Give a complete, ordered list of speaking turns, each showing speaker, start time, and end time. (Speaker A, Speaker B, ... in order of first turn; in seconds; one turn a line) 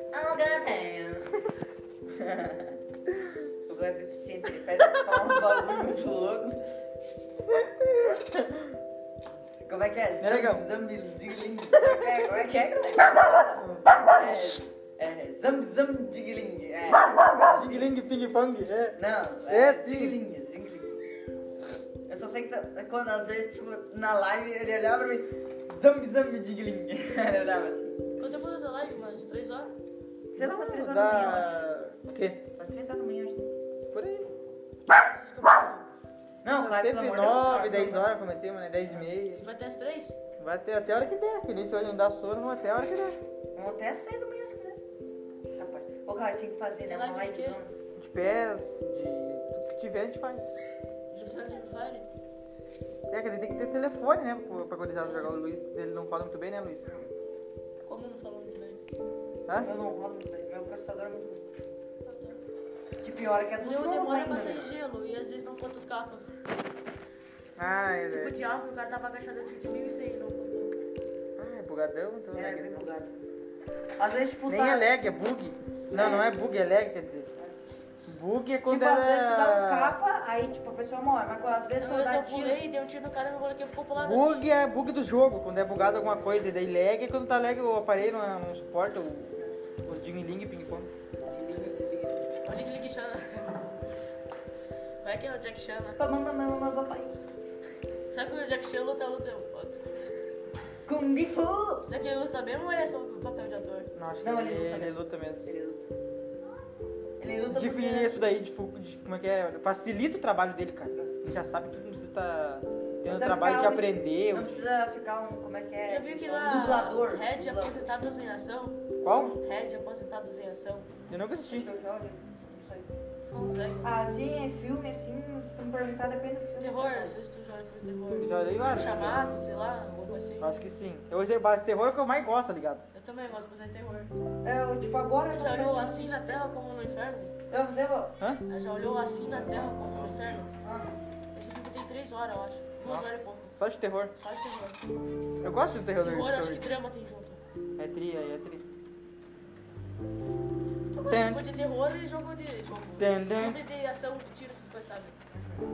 Speaker A: 0.1-1.4
Speaker A: 2.1-2.8
Speaker A: 3.7-6.6
Speaker B: 5.0-5.4
Speaker B: 7.5-8.8
Speaker A: 9.6-17.9
Speaker B: 10.2-10.7
Speaker B: 13.6-14.4
Speaker B: 17.2-20.2
Speaker A: 19.0-21.0
Speaker A: 22.1-28.0
Speaker C: 28.2-29.7
Speaker A: 30.3-31.7
Speaker B: 30.3-32.4
Speaker A: 32.6-33.5
Speaker B: 33.9-34.3
Speaker C: 35.1-35.9
Speaker A: 36.4-38.2
Speaker B: 36.6-39.4
Speaker C: 39.2-40.2
Speaker B: 40.4-43.2
Speaker A: 43.5-44.8
Speaker A: 45.5-47.7
Speaker C: 46.9-47.6
Speaker B: 48.0-50.6
Speaker C: 51.1-52.1
Speaker B: 53.1-56.9
Speaker C: 55.0-55.4
Speaker C: 57.8-58.8
Speaker A: 59.5-61.4
Speaker A: 63.0-64.7
Speaker C: 63.6-66.3
Speaker B: 67.6-68.4
Speaker C: 68.1-70.8
Speaker B: 71.4-72.8
Speaker A: 72.3-73.1
Speaker A: 74.0-74.9
Speaker B: 74.5-77.3
Speaker A: 75.9-76.3
Speaker B: 78.0-80.0
Speaker A: 78.7-82.6
Speaker C: 81.8-84.5
Speaker B: 84.0-90.9
Speaker A: 91.3-92.4
Speaker C: 92.4-93.7
Speaker C: 95.0-96.0
Speaker A: 96.0-97.2
Speaker C: 98.1-99.8
Speaker A: 100.8-101.9
Speaker C: 101.8-103.9
Speaker B: 103.9-105.5
Speaker A: 104.2-105.8
Speaker A: 107.2-108.2
Speaker B: 107.5-114.7
Speaker A: 113.0-117.9
Speaker C: 115.8-120.9
Speaker B: 119.0-119.4
Speaker A: 119.1-119.3
Speaker B: 121.1-121.7
Speaker A: 121.5-122.9
Speaker C: 123.2-123.9
Speaker A: 123.8-127.2
Speaker C: 126.6-130.6
Speaker B: 128.2-129.3
Speaker B: 130.4-132.8
Speaker C: 132.9-134.1
Speaker A: 134.4-136.4
Speaker C: 135.3-137.3
Speaker A: 137.5-138.1
Speaker C: 138.5-140.5
Speaker A: 140.6-140.9
Speaker C: 141.3-143.5
Speaker B: 142.8-144.1
Speaker C: 144.2-144.8
Speaker B: 145.4-146.8
Speaker C: 146.0-147.4
Speaker B: 147.8-148.6
Speaker C: 150.9-155.2
Speaker B: 151.1-151.5
Speaker B: 153.0-153.6
Speaker A: 155.3-155.6